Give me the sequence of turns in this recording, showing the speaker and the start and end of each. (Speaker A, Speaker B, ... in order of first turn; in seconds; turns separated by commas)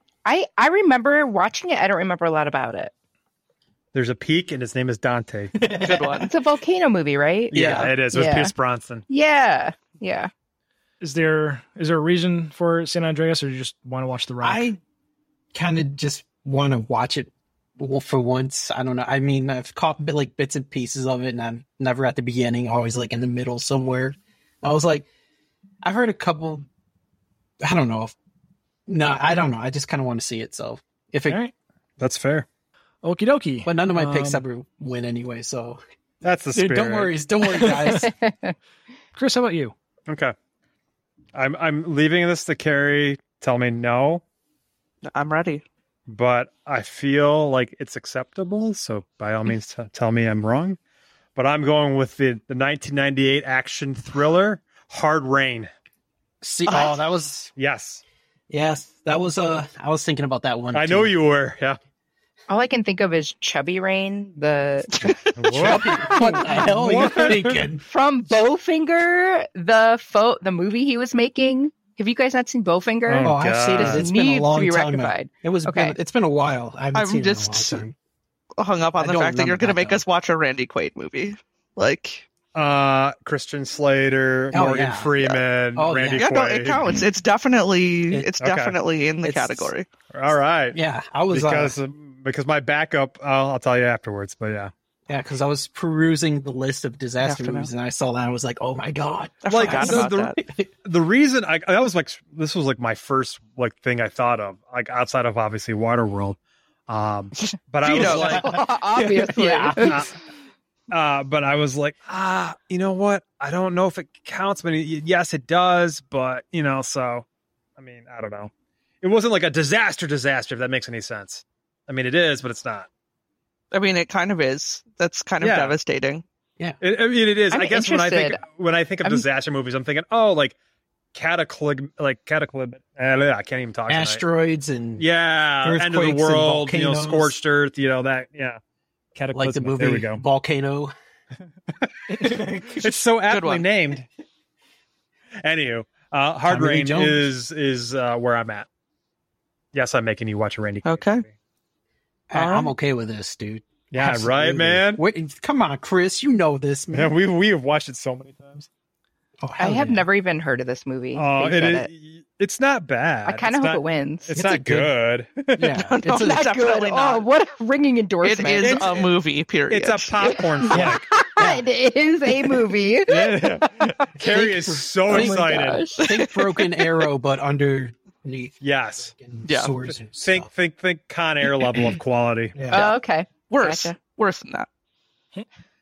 Speaker A: 0.2-2.9, Speaker B: 3.9-5.5, Speaker C: 5.5-6.2, Speaker D: 5.8-6.3, Speaker A: 6.2-8.5, Speaker B: 7.5-9.0, Speaker C: 7.5-7.9, Speaker A: 9.1-10.3, Speaker E: 11.0-14.7, Speaker C: 14.4-14.8, Speaker C: 15.5-25.1, Speaker C: 25.8-26.7, Speaker C: 27.6-28.1, Speaker C: 28.9-31.4, Speaker E: 31.3-31.5, Speaker B: 32.0-32.5, Speaker E: 33.0-34.4, Speaker C: 33.6-35.8, Speaker B: 36.2-37.1, Speaker C: 36.5-38.1, Speaker A: 37.6-38.5, Speaker E: 39.1-39.7, Speaker B: 40.1-40.3, Speaker B: 41.3-44.2, Speaker D: 45.0-45.6, Speaker B: 46.1-50.8, Speaker B: 51.4-55.7, Speaker C: 56.4-57.5, Speaker D: 56.7-57.0, Speaker B: 57.5-58.0, Speaker C: 58.5-61.1, Speaker B: 60.7-61.8, Speaker A: 62.5-65.2, Speaker D: 65.0-65.7, Speaker B: 65.3-67.6, Speaker C: 65.5-67.8, Speaker A: 67.8-76.0, Speaker B: 73.1-74.1, Speaker C: 73.2-77.9, Speaker D: 76.9-77.8, Speaker D: 78.6-82.2, Speaker C: 79.0-80.0, Speaker B: 82.5-87.0, Speaker C: 84.5-86.3, Speaker D: 86.1-89.9, Speaker B: 88.4-88.8, Speaker C: 89.2-89.7, Speaker B: 90.1-90.8, Speaker C: 90.7-91.8, Speaker B: 91.3-94.7, Speaker C: 95.1-100.7, Speaker D: 97.2-97.7, Speaker D: 99.4-100.3, Speaker B: 99.5-108.6, Speaker D: 107.8-108.4, Speaker C: 107.9-110.1, Speaker A: 108.2-110.0, Speaker B: 109.8-110.1, Speaker B: 110.9-117.2, Speaker B: 117.8-118.5, Speaker B: 119.0-122.9, Speaker D: 123.7-126.2, Speaker B: 125.4-125.8, Speaker B: 126.8-130.6, Speaker A: 127.5-128.4, Speaker B: 131.1-134.2, Speaker C: 133.9-135.1, Speaker B: 135.0-138.6, Speaker C: 135.6-137.3, Speaker B: 139.1-140.2, Speaker C: 139.3-140.9, Speaker B: 141.8-144.1, Speaker D: 143.3-143.7, Speaker B: 145.4-148.7, Speaker C: 146.4-147.3, Speaker B: 149.7-151.3, Speaker D: 150.8-151.2, Speaker C: 152.3-157.1, Speaker D: 152.3-152.7, Speaker B: 153.9-155.0, Speaker B: 156.9-158.7, Speaker C: 159.4-160.0, Speaker A: 159.6-161.9, Speaker B: 161.1-165.8, Speaker A: 163.2-164.4, Speaker C: 164.3-164.9, Speaker C: 165.6-166.5, Speaker D: 165.8-167.2, Speaker A: 166.1-168.9, Speaker D: 168.2-170.4, Speaker B: 168.6-169.1, Speaker B: 169.7-171.1, Speaker A: 170.4-173.5, Speaker C: 170.7-171.6, Speaker B: 173.1-175.8, Speaker C: 174.2-180.5, Speaker A: 175.1-176.1, Speaker D: 176.1-176.4, Speaker B: 178.6-179.1, Speaker D: 179.5-179.7, Speaker B: 180.2-182.6, Speaker C: 182.5-182.9, Speaker A: 182.7-183.9, Speaker D: 183.5-184.7